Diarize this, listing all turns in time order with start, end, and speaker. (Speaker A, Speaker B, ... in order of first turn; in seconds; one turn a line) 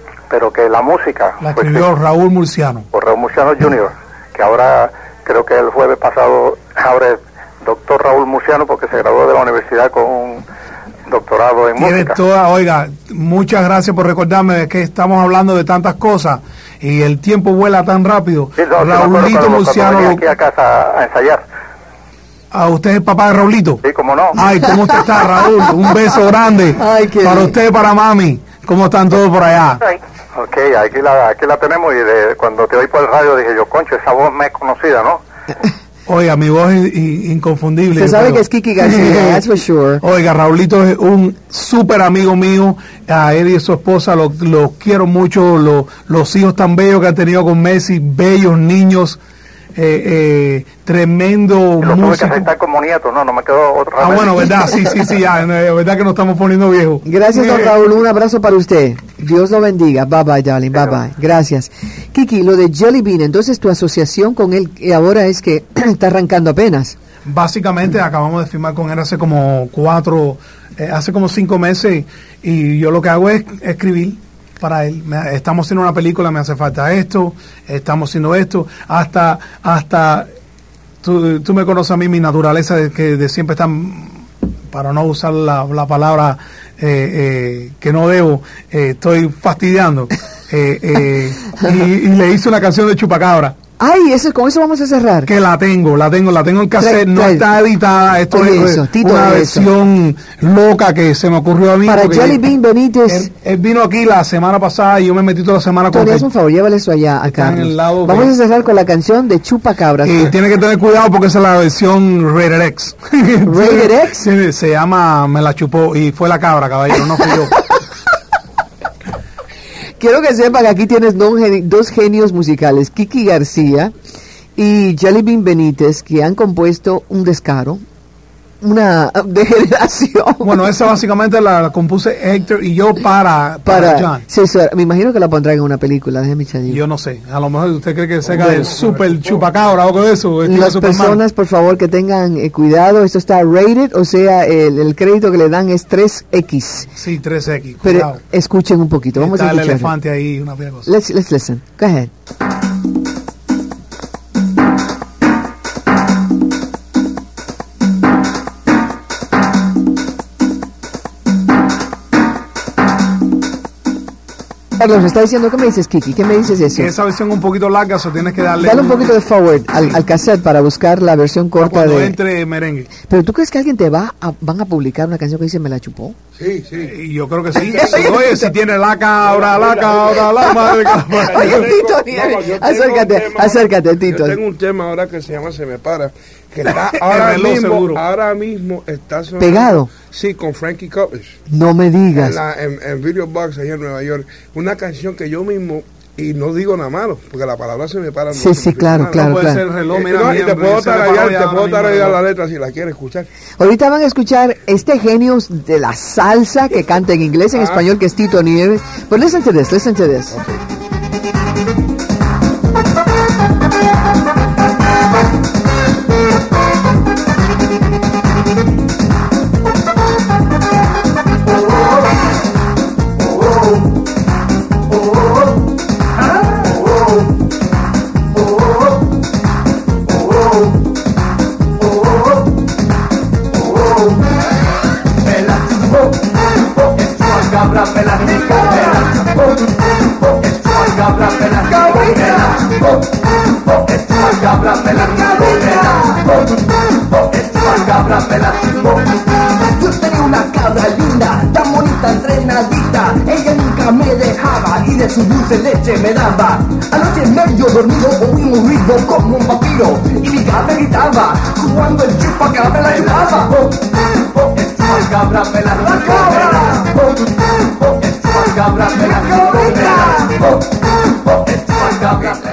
Speaker A: 0.3-1.9
Speaker B: 1.4-2.9
Speaker A: 2.9-10.4
Speaker A: 11.1-12.2
Speaker B: 11.8-20.2
Speaker A: 18.6-21.5
Speaker B: 22.5-23.8
Speaker A: 23.8-24.4
Speaker B: 24.4-29.8
Speaker C: 24.6-25.7
Speaker C: 26.8-27.6
Speaker A: 29.9-35.2
Speaker B: 36.1-49.2
Speaker C: 37.9-40.0
Speaker B: 49.8-52.5
Speaker A: 51.8-54.5
Speaker B: 54.0-57.8
Speaker C: 57.0-67.0
Speaker B: 67.2-80.3
Speaker B: 81.0-93.6
Speaker C: 93.8-95.3
Speaker B: 95.3-102.4
Speaker C: 96.8-97.5
Speaker C: 98.3-99.7
Speaker C: 101.8-103.3
Speaker B: 103.1-106.3
Speaker C: 105.9-110.3
Speaker B: 107.3-108.4
Speaker B: 110.0-117.6
Speaker C: 113.5-114.2
Speaker C: 120.0-123.9
Speaker C: 124.6-127.8
Speaker C: 128.6-130.6
Speaker B: 130.4-134.2
Speaker C: 133.7-136.8
Speaker B: 136.7-141.2
Speaker D: 138.3-139.7
Speaker C: 138.4-138.7
Speaker C: 140.4-146.9
Speaker B: 147.0-148.2
Speaker C: 147.8-149.9
Speaker B: 149.2-150.9
Speaker C: 150.9-152.1
Speaker C: 164.8-166.9
Speaker B: 166.8-169.2
Speaker C: 168.6-172.2
Speaker B: 171.6-172.9
Speaker C: 173.1-176.2
Speaker D: 176.4-177.0
Speaker B: 176.8-181.7
Speaker C: 177.6-178.5
Speaker D: 177.6-178.1
Speaker D: 179.2-180.6
Speaker C: 180.2-184.4
Speaker D: 181.2-191.4
Speaker B: 186.7-188.0
Speaker C: 189.4-189.9
Speaker C: 191.5-192.4
Speaker D: 192.1-199.4
Speaker C: 198.3-199.6
Speaker B: 199.1-202.2
Speaker D: 199.9-203.3
Speaker C: 203.6-210.4
Speaker D: 207.6-207.8
Speaker D: 210.3-210.6
Speaker E: 235.3-236.2
Speaker E: 237.0-239.4
Speaker E: 240.4-242.9
Speaker E: 243.8-246.4
Speaker E: 247.2-249.1
Speaker E: 249.7-263.8
Speaker E: 264.5-267.0
Speaker E: 267.9-270.5
Speaker E: 271.4-272.4